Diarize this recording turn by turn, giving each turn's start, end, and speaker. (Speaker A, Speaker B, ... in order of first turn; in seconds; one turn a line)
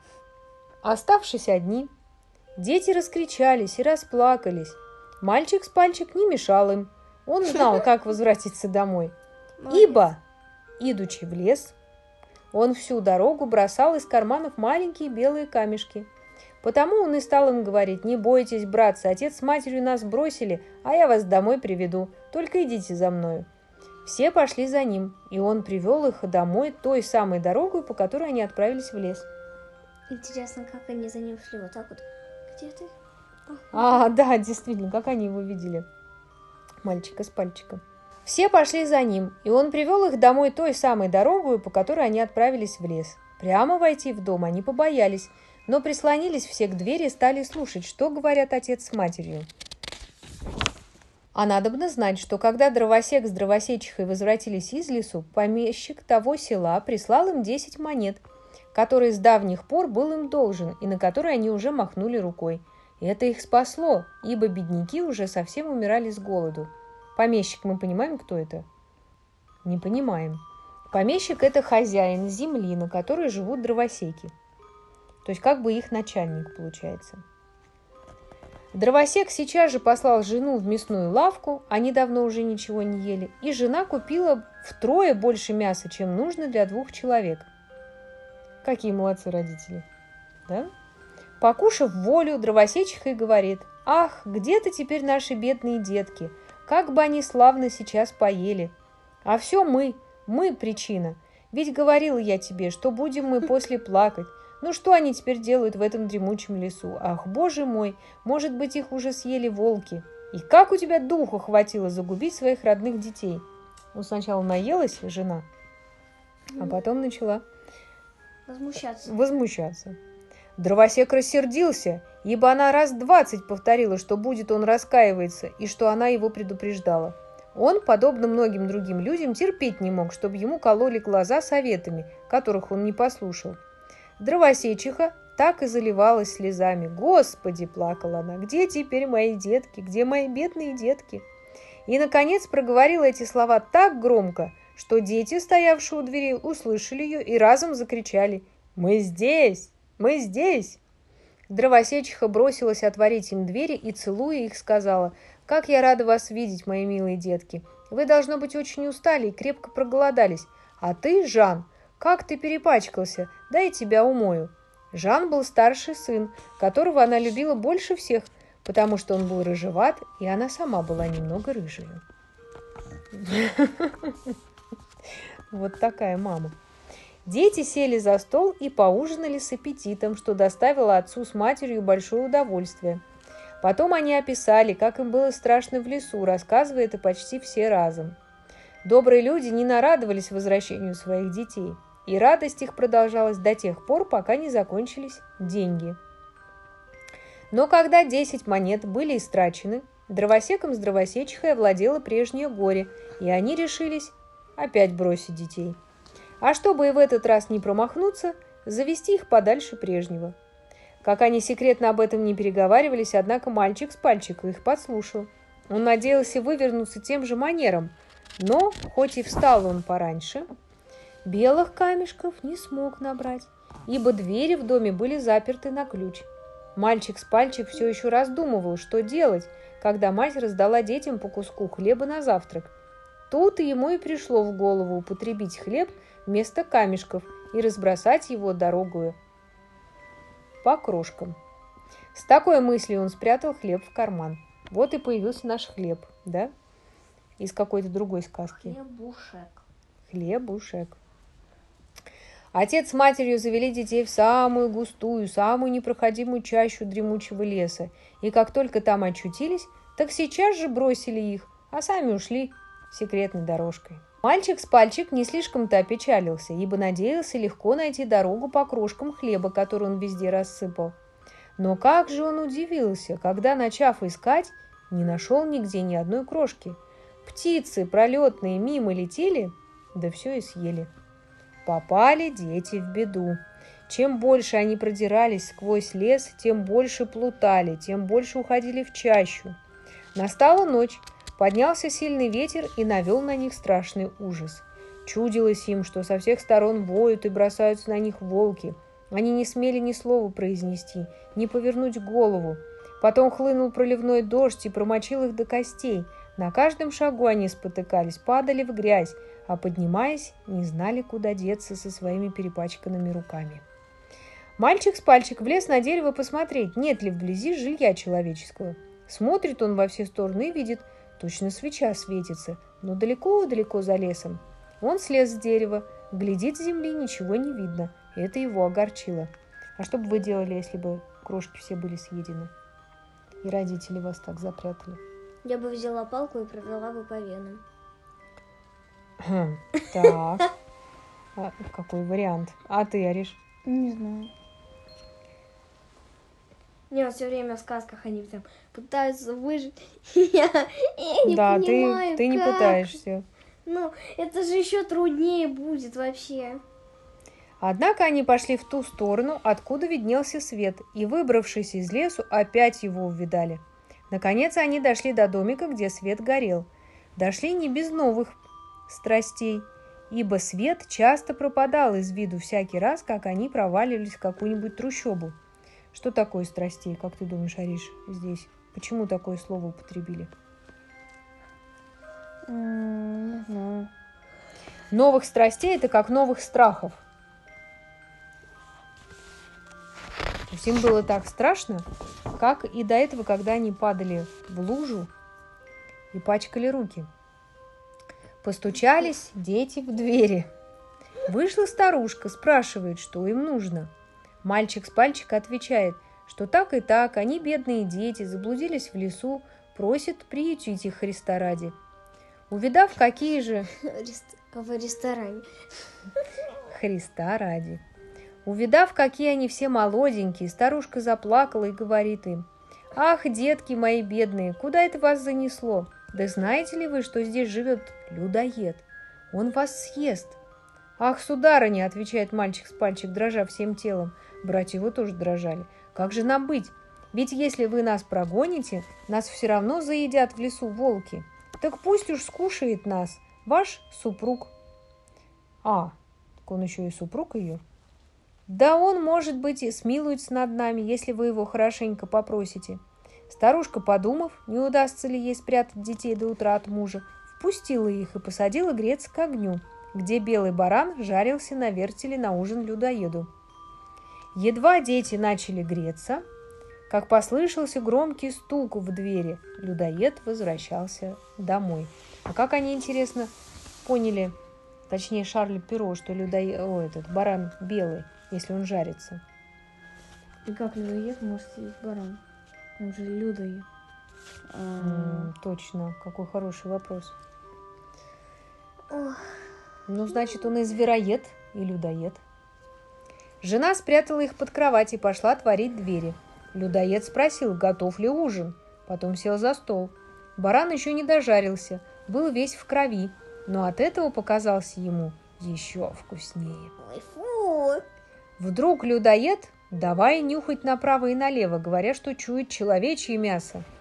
Speaker A: 0.8-1.9
Speaker A: 2.6-9.1
Speaker B: 9.6-10.1
Speaker A: 9.7-10.2
Speaker A: 10.8-11.7
Speaker A: 12.5-16.1
Speaker A: 16.6-23.5
Speaker A: 24.1-29.3
Speaker B: 30.1-32.9
Speaker B: 33.5-34.1
Speaker A: 33.7-35.9
Speaker A: 36.8-49.5
Speaker A: 51.3-58.2
Speaker A: 58.7-68.7
Speaker A: 69.6-74.3
Speaker A: 75.2-77.2
Speaker A: 78.7-87.5
Speaker A: 88.6-89.9
Speaker A: 91.4-98.7
Speaker A: 99.2-115.5
Speaker A: 116.6-117.4
Speaker B: 118.5-119.1
Speaker A: 119.1-120.0
Speaker A: 120.6-133.6
Speaker A: 134.2-141.2
Speaker A: 141.9-150.8
Speaker A: 151.5-172.0
Speaker A: 173.2-174.3
Speaker A: 175.5-176.6
Speaker A: 177.2-183.0
Speaker A: 183.6-188.2
Speaker A: 188.8-196.0
Speaker A: 197.5-205.8
Speaker A: 206.4-210.3
Speaker A: 211.0-220.5
Speaker A: 221.2-232.7
Speaker A: 233.3-239.2
Speaker A: 240.6-241.4
Speaker A: 242.1-246.5
Speaker A: 247.4-248.8
Speaker B: 248.6-249.6
Speaker A: 250.1-251.0
Speaker A: 252.5-271.0
Speaker A: 271.6-280.9
Speaker A: 281.6-289.6
Speaker A: 290.1-313.6
Speaker A: 314.6-332.5
Speaker A: 333.4-335.0
Speaker B: 335.4-337.6
Speaker A: 339.2-340.5
Speaker A: 341.4-343.4
Speaker C: 343.6-344.3
Speaker B: 346.9-353.0
Speaker A: 351.3-353.3
Speaker B: 353.6-356.6
Speaker A: 357.6-375.4
Speaker A: 375.9-380.3
Speaker C: 382.5-383.9
Speaker A: 384.9-387.0
Speaker A: 390.5-395.1
Speaker A: 396.1-397.1
Speaker A: 398.4-400.5
Speaker A: 401.3-403.9
Speaker A: 404.4-411.8
Speaker A: 412.5-413.7
Speaker B: 413.8-415.5
Speaker A: 416.7-417.8
Speaker A: 418.4-430.4
Speaker A: 431.0-444.5
Speaker A: 445.6-447.6
Speaker A: 448.5-463.3
Speaker A: 464.3-466.2
Speaker A: 466.9-473.3
Speaker A: 473.8-474.4
Speaker A: 474.9-479.2
Speaker C: 480.4-482.2
Speaker C: 482.8-483.7
Speaker C: 484.5-485.3
Speaker A: 484.8-487.1
Speaker B: 488.9-489.4
Speaker A: 489.9-492.2
Speaker A: 493.4-506.7
Speaker B: 506.8-507.8
Speaker A: 508.4-513.6